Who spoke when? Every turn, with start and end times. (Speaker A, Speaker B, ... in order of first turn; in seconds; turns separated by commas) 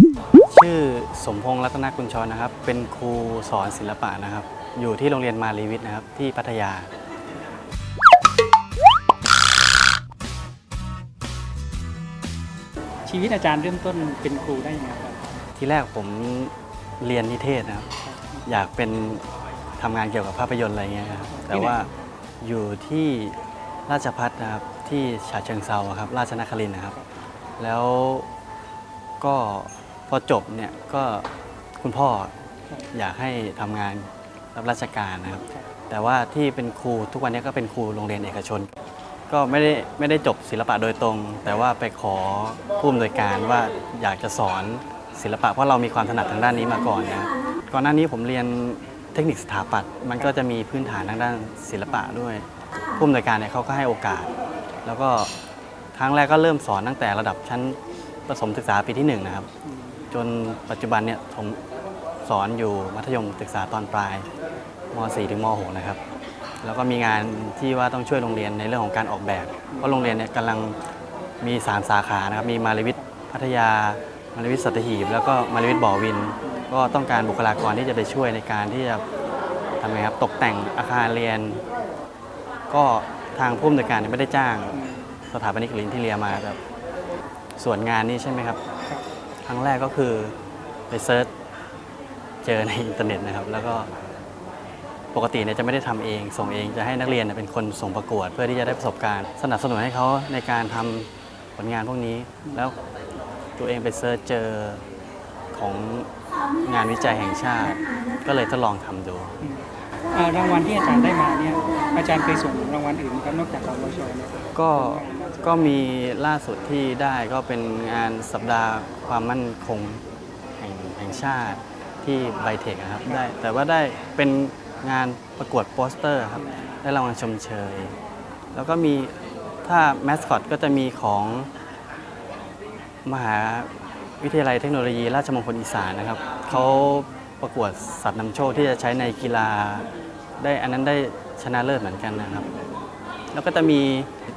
Speaker A: 0.5-6.9, Speaker B: 13.1-15.4, Speaker A: 15.6-17.9, Speaker B: 18.0-18.5, Speaker A: 18.4-19.2, Speaker A: 19.8-21.9, Speaker B: 21.3-21.9, Speaker A: 22.4-26.9, Speaker A: 27.6-28.3, Speaker A: 29.2-31.3, Speaker A: 31.8-32.3, Speaker A: 32.9-38.7, Speaker A: 39.3-54.3, Speaker A: 54.8-55.3, Speaker A: 56.0-59.5, Speaker B: 59.6-60.0, Speaker A: 60.1-61.6, Speaker A: 62.2-64.3, Speaker A: 64.9-66.0, Speaker A: 66.6-70.8, Speaker B: 69.7-70.0, Speaker A: 71.4-79.0, Speaker B: 76.4-76.7, Speaker A: 79.8-81.6, Speaker A: 82.7-84.8, Speaker B: 84.7-85.2, Speaker A: 85.3-86.6, Speaker A: 87.6-88.6, Speaker A: 89.4-90.3, Speaker A: 90.9-91.3, Speaker A: 92.4-93.9, Speaker A: 95.1-102.8, Speaker A: 103.6-104.8, Speaker A: 105.5-109.3, Speaker B: 109.4-115.7, Speaker A: 114.5-120.0, Speaker A: 120.6-128.0, Speaker B: 121.1-121.6, Speaker B: 126.3-126.8, Speaker A: 128.5-131.5, Speaker A: 133.0-133.7, Speaker A: 134.2-139.9, Speaker B: 136.5-137.0, Speaker A: 140.4-142.5, Speaker A: 143.3-144.1